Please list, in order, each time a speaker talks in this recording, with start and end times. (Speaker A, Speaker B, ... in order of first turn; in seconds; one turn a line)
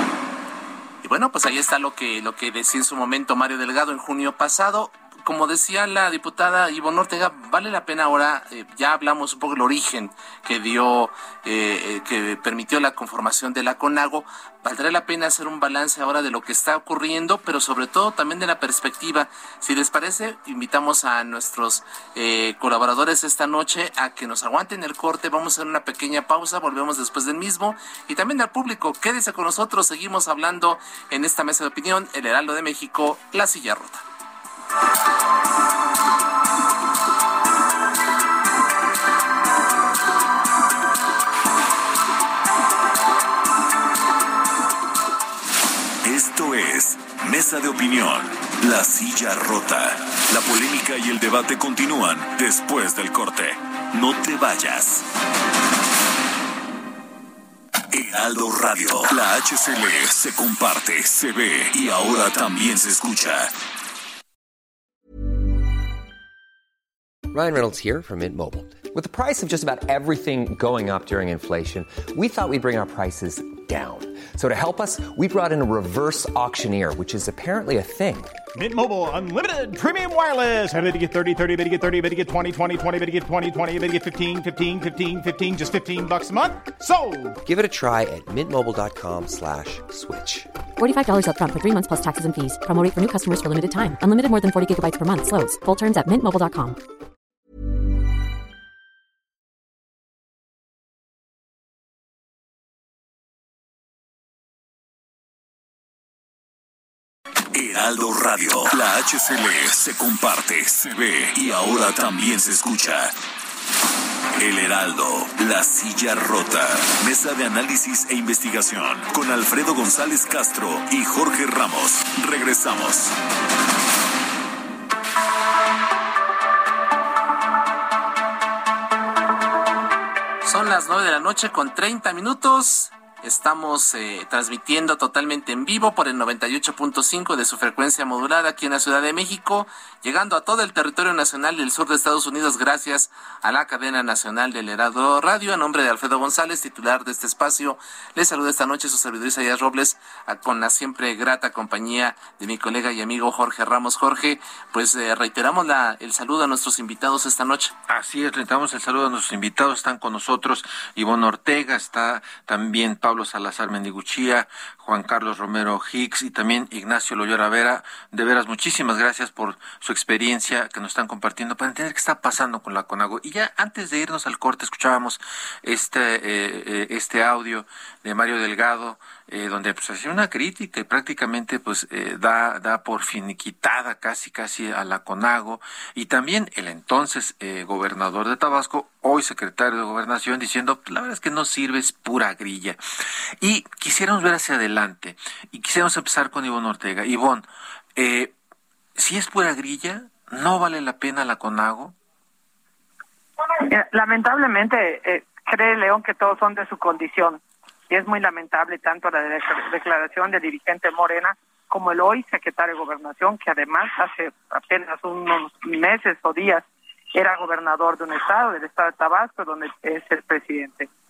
Speaker A: 1.0-34.0
Speaker B: 46.0-55.1
Speaker B: 57.9-63.5
Speaker C: 67.3-78.3
Speaker D: 78.5-87.4
Speaker C: 87.4-90.5
Speaker E: 90.8-96.8
Speaker B: 107.5-113.1
Speaker B: 114.4-123.2
Speaker A: 130.4-157.7
Speaker F: 157.9-192.8
Speaker F: 193.4-198.3
Speaker F: 198.9-201.9
Speaker G: 203.6-220.9